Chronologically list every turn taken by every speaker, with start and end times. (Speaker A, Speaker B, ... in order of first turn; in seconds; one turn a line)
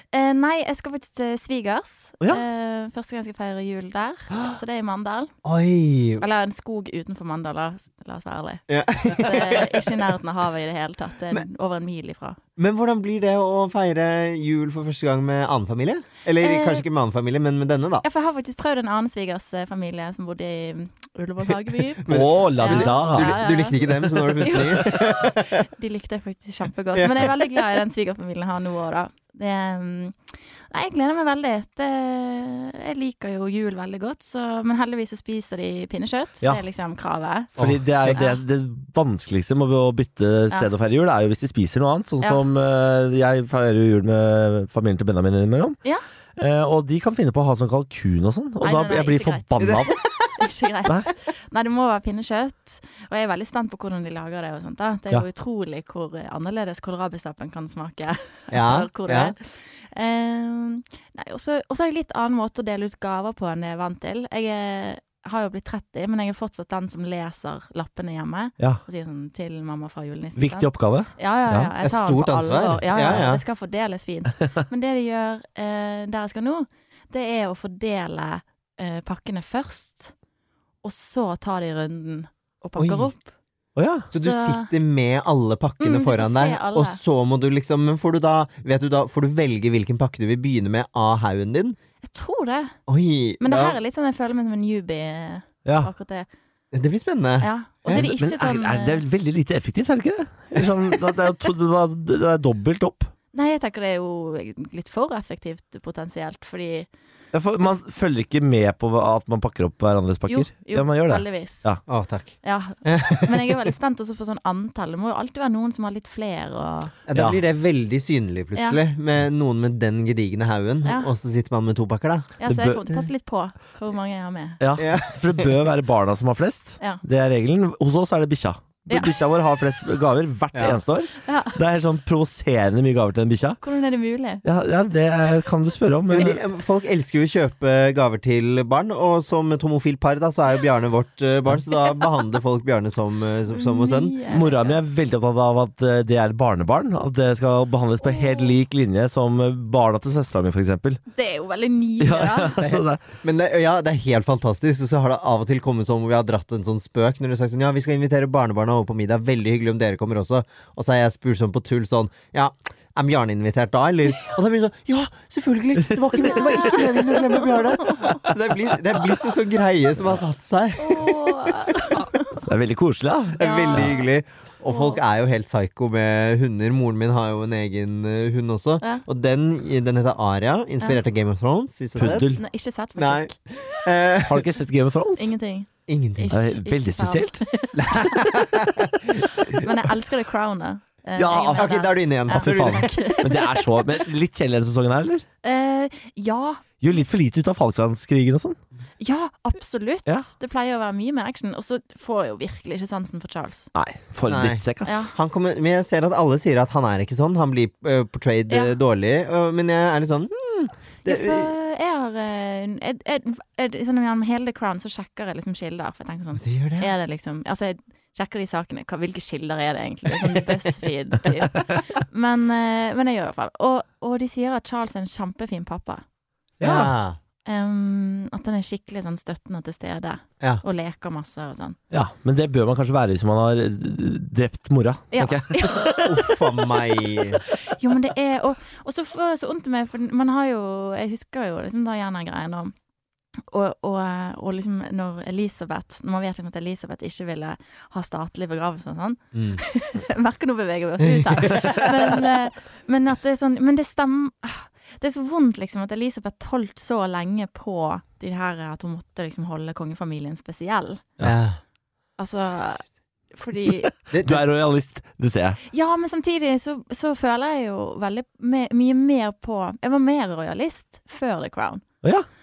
Speaker A: 0.1-5.3
Speaker B: 5.4-6.2
Speaker A: 6.2-12.4
Speaker B: 8.7-10.0
Speaker B: 12.6-18.0
Speaker A: 16.4-16.8
Speaker A: 18.0-37.6
Speaker B: 22.0-25.6
Speaker C: 22.1-23.4
Speaker B: 26.9-27.4
Speaker B: 37.6-38.2
Speaker C: 37.6-45.8
Speaker A: 38.1-38.4
Speaker C: 46.4-50.0
Speaker A: 48.6-80.1
Speaker B: 58.5-59.3
Speaker C: 70.4-71.7
Speaker B: 71.8-73.4
Speaker A: 80.8-83.3
Speaker B: 82.8-83.1
Speaker C: 83.8-84.1
Speaker B: 84.1-91.8
Speaker A: 84.1-84.7
Speaker A: 85.8-87.0
Speaker A: 92.0-92.8
Speaker B: 92.9-93.8
Speaker A: 93.4-96.3
Speaker C: 95.6-95.9
Speaker B: 96.7-98.1
Speaker A: 97.4-99.0
Speaker C: 97.9-103.1
Speaker A: 103.3-106.9
Speaker C: 107.3-111.8
Speaker A: 110.3-111.7
Speaker B: 111.9-113.7
Speaker A: 112.4-116.9
Speaker B: 117.1-122.4
Speaker A: 118.5-118.8
Speaker A: 120.8-121.1
Speaker A: 122.4-124.6
Speaker C: 122.5-123.0
Speaker C: 124.6-133.6
Speaker B: 124.8-125.5
Speaker B: 130.5-130.8
Speaker A: 131.1-131.6
Speaker A: 133.6-134.4
Speaker C: 134.4-136.4
Speaker B: 136.1-144.2
Speaker A: 143.5-144.8
Speaker C: 144.3-151.0
Speaker A: 148.0-148.5
Speaker A: 151.1-152.6
Speaker C: 152.0-153.0
Speaker B: 152.6-171.7
Speaker A: 166.2-168.2
Speaker C: 166.3-167.4
Speaker A: 170.8-172.4
Speaker C: 172.0-173.9
Speaker B: 173.3-182.3
Speaker A: 173.4-174.1
Speaker A: 174.7-175.0
Speaker C: 181.9-182.4
Speaker A: 182.3-183.8
Speaker B: 183.0-184.5
Speaker C: 184.2-185.3
Speaker A: 185.2-188.3
Speaker B: 185.9-186.3
Speaker C: 186.3-187.4
Speaker B: 187.8-189.6
Speaker A: 189.3-193.8
Speaker C: 191.2-191.7
Speaker B: 191.3-193.2
Speaker C: 192.3-195.2
Speaker A: 195.4-196.6
Speaker C: 196.8-198.6
Speaker A: 199.0-203.7
Speaker C: 203.7-205.1
Speaker B: 204.3-211.5
Speaker A: 204.8-205.1
Speaker A: 211.0-226.0
Speaker B: 216.4-216.9
Speaker C: 226.6-226.9
Speaker B: 226.6-227.2
Speaker A: 227.4-231.8
Speaker C: 231.9-236.2
Speaker A: 235.1-236.1
Speaker B: 236.0-237.4
Speaker A: 237.4-242.7
Speaker A: 243.5-261.0
Speaker B: 249.3-249.6
Speaker B: 251.0-251.9
Speaker B: 261.2-261.6
Speaker A: 262.2-263.9
Speaker C: 263.8-265.6
Speaker B: 264.1-264.4
Speaker A: 265.7-271.8